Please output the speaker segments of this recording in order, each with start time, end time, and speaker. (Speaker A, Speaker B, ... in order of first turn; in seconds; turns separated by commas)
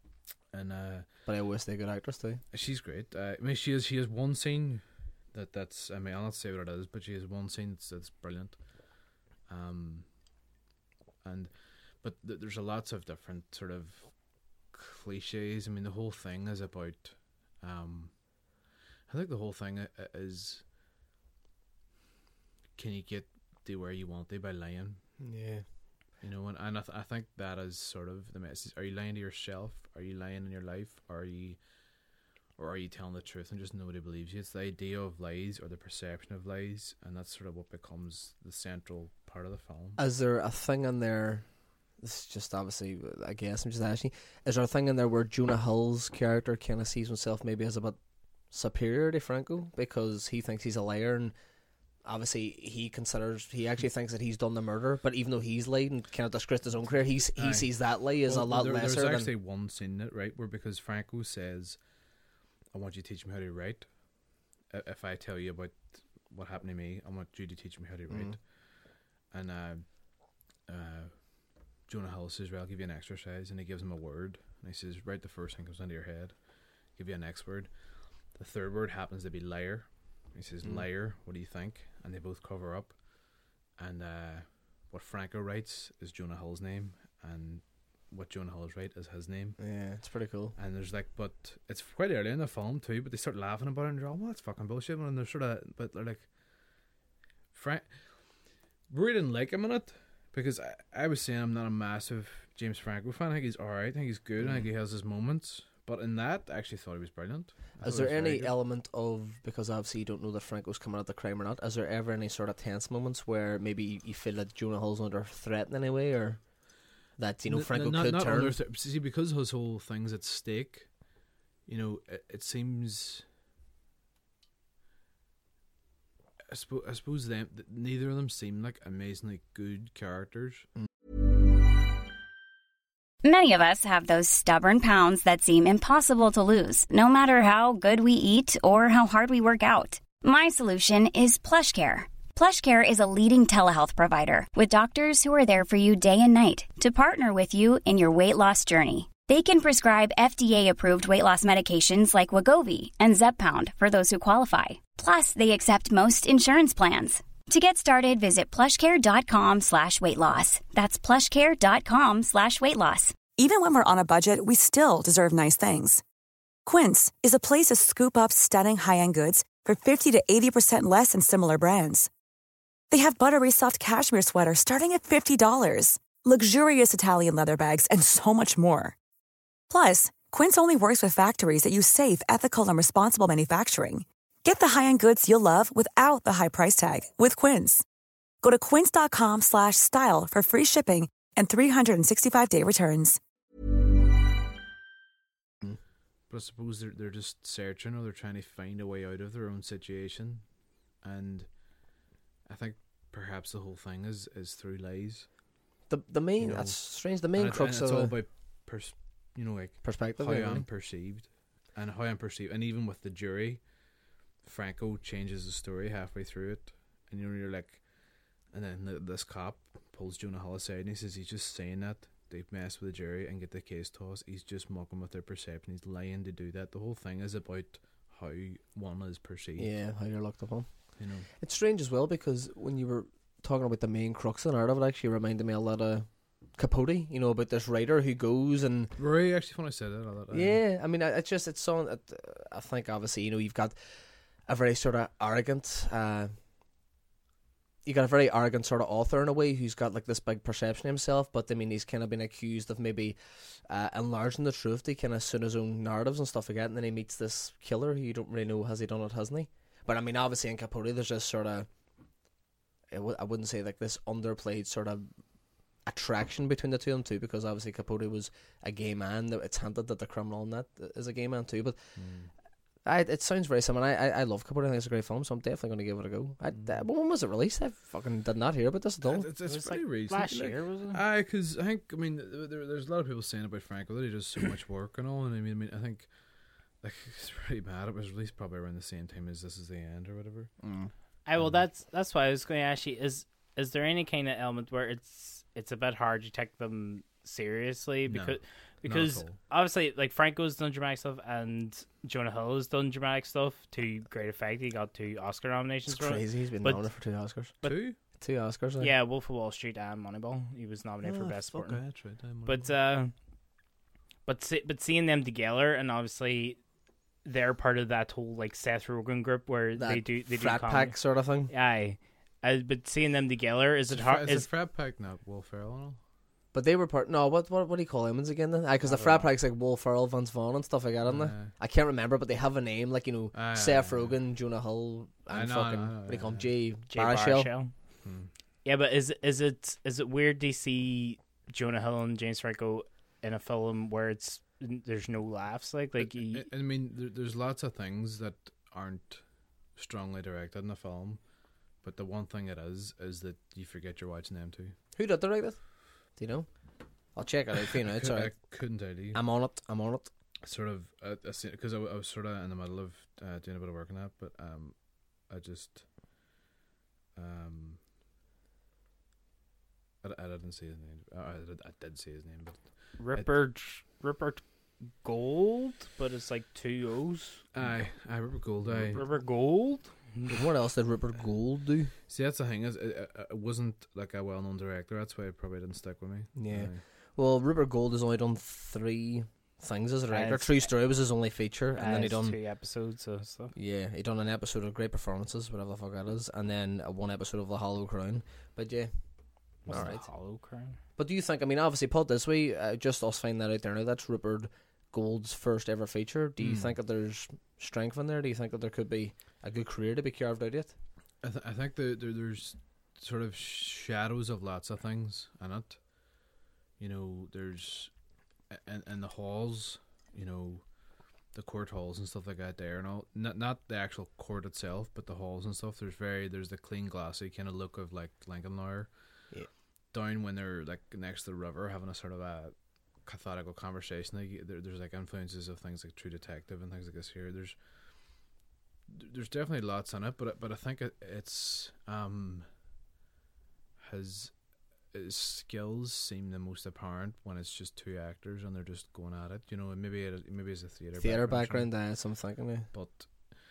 Speaker A: 0.5-1.1, Speaker B: 1.3-2.4, Speaker A: 2.5-8.6, Speaker A: 9.5-10.1, Speaker A: 11.2-11.5, Speaker A: 12.0-14.1, Speaker A: 14.7-18.1, Speaker A: 19.1-20.6, Speaker A: 22.8-25.0, Speaker B: 25.2-25.6, Speaker A: 26.2-31.6, Speaker A: 32.6-40.0, Speaker B: 40.0-41.4, Speaker B: 42.0-48.0, Speaker B: 48.5-51.3, Speaker B: 52.0-59.3, Speaker A: 57.3-57.7, Speaker A: 58.2-61.8, Speaker A: 62.7-63.8, Speaker A: 64.7-68.4, Speaker A: 69.3-69.8, Speaker A: 70.7-71.1, Speaker A: 71.9-76.3, Speaker A: 76.9-77.7, Speaker A: 78.3-83.0, Speaker A: 83.8-89.6, Speaker B: 89.6-90.5, Speaker A: 90.6-96.3, Speaker A: 97.5-97.9, Speaker A: 98.9-108.5, Speaker B: 104.4-104.7, Speaker B: 107.8-116.4, Speaker B: 117.2-118.5, Speaker A: 117.5-120.9, Speaker A: 121.7-123.2, Speaker A: 126.5-130.7, Speaker C: 133.2-163.2, Speaker D: 163.4-166.0, Speaker D: 166.6-172.1, Speaker D: 172.9-178.9, Speaker D: 179.7-187.8, Speaker D: 188.4-193.2, Speaker A: 196.3-200.4, Speaker A: 201.0-201.5, Speaker A: 202.5-205.3, Speaker B: 205.9-208.1, Speaker A: 206.4-206.8, Speaker A: 207.3-213.6, Speaker B: 209.8-210.7, Speaker A: 214.4-217.8, Speaker A: 218.5-229.7, Speaker B: 229.6-230.7, Speaker A: 231.0-231.3, Speaker B: 231.4-238.9, Speaker A: 239.0-240.6, Speaker B: 240.3-243.7, Speaker B: 244.5-246.3, Speaker B: 247.8-261.7, Speaker B: 262.9-265.1, Speaker B: 265.9-271.8, Speaker A: 272.0-272.3, Speaker B: 272.8-279.3, Speaker A: 279.0-286.1, Speaker E: 279.4-281.0, Speaker A: 286.8-290.5, Speaker B: 290.6-290.9, Speaker E: 291.2-306.8, Speaker A: 298.1-299.4, Speaker B: 305.9-307.5, Speaker A: 307.6-307.9, Speaker B: 308.2-308.9, Speaker E: 308.8-311.8, Speaker A: 311.0-312.7, Speaker E: 312.4-313.1, Speaker E: 314.2-316.6, Speaker E: 317.2-320.9, Speaker B: 319.8-321.5, Speaker E: 321.5-324.5, Speaker A: 323.9-326.0, Speaker B: 326.5-337.5, Speaker E: 328.8-329.3, Speaker A: 331.0-331.5, Speaker A: 333.3-334.2, Speaker A: 335.3-336.5, Speaker E: 336.9-337.7, Speaker A: 338.0-338.3, Speaker E: 338.6-346.4, Speaker A: 346.0-349.2, Speaker A: 349.8-351.2, Speaker A: 351.8-354.7, Speaker B: 354.9-355.6, Speaker B: 356.2-356.5, Speaker B: 357.1-358.3, Speaker A: 357.9-359.2, Speaker B: 359.1-360.1, Speaker A: 360.4-364.7, Speaker A: 365.3-365.8, Speaker A: 367.1-367.8, Speaker A: 370.0-373.3, Speaker E: 373.0-374.4, Speaker E: 375.0-377.4, Speaker A: 377.5-379.0, Speaker E: 378.9-380.4, Speaker B: 380.3-381.9, Speaker A: 382.1-386.8, Speaker B: 386.4-392.4, Speaker E: 390.1-390.7, Speaker E: 391.8-393.5, Speaker B: 393.5-398.9, Speaker E: 399.6-400.8, Speaker B: 399.7-400.0, Speaker B: 401.0-410.7, Speaker A: 406.4-406.7, Speaker A: 411.2-415.8, Speaker A: 416.8-417.9, Speaker A: 418.5-420.6, Speaker A: 421.3-428.9, Speaker A: 429.9-432.5, Speaker A: 433.0-437.6, Speaker A: 438.9-442.4, Speaker A: 443.8-444.3, Speaker A: 444.9-451.7, Speaker B: 451.0-452.7, Speaker A: 452.7-453.1